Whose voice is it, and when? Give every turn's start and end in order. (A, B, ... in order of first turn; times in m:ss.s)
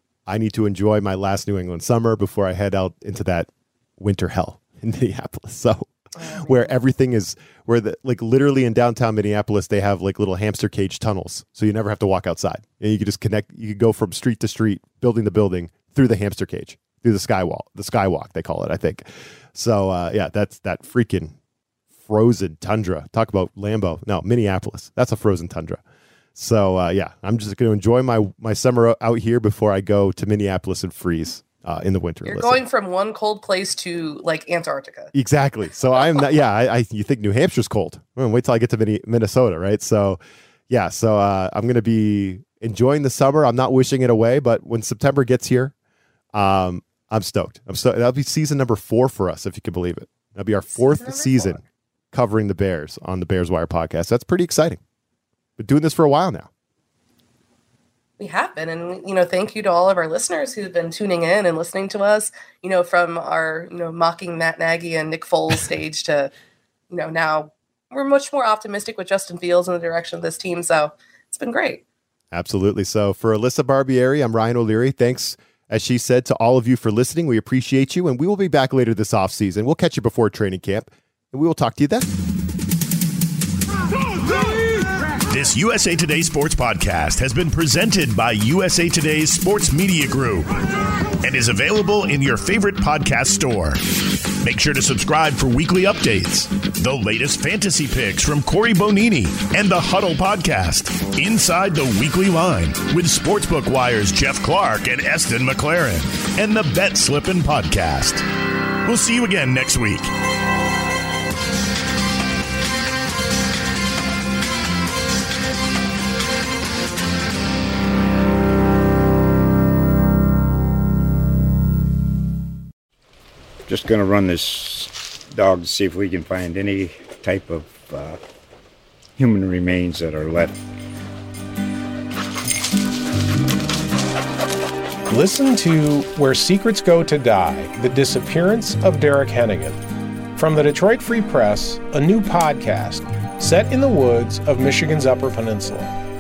0:00.3-0:21.4 A
0:06.2-0:06.7 B
0:22.0-0:25.8 A
0:26.4-0:32.6 A
0:32.2-0:35.1 B
0:35.1-0:45.7 A
0:46.3-0:54.8 A
0:50.8-0:51.6 B
0:55.6-0:56.5 A
0:58.2-1:06.3 B
1:06.9-1:11.8 B
1:12.3-1:22.1 A
1:25.3-1:30.5 C
1:31.2-1:33.8 C
1:34.4-1:48.2 C
1:48.8-1:50.1 C
2:03.7-2:08.2 D
2:09.2-2:10.6 D
2:15.1-2:19.8 E
2:20.4-2:26.0 E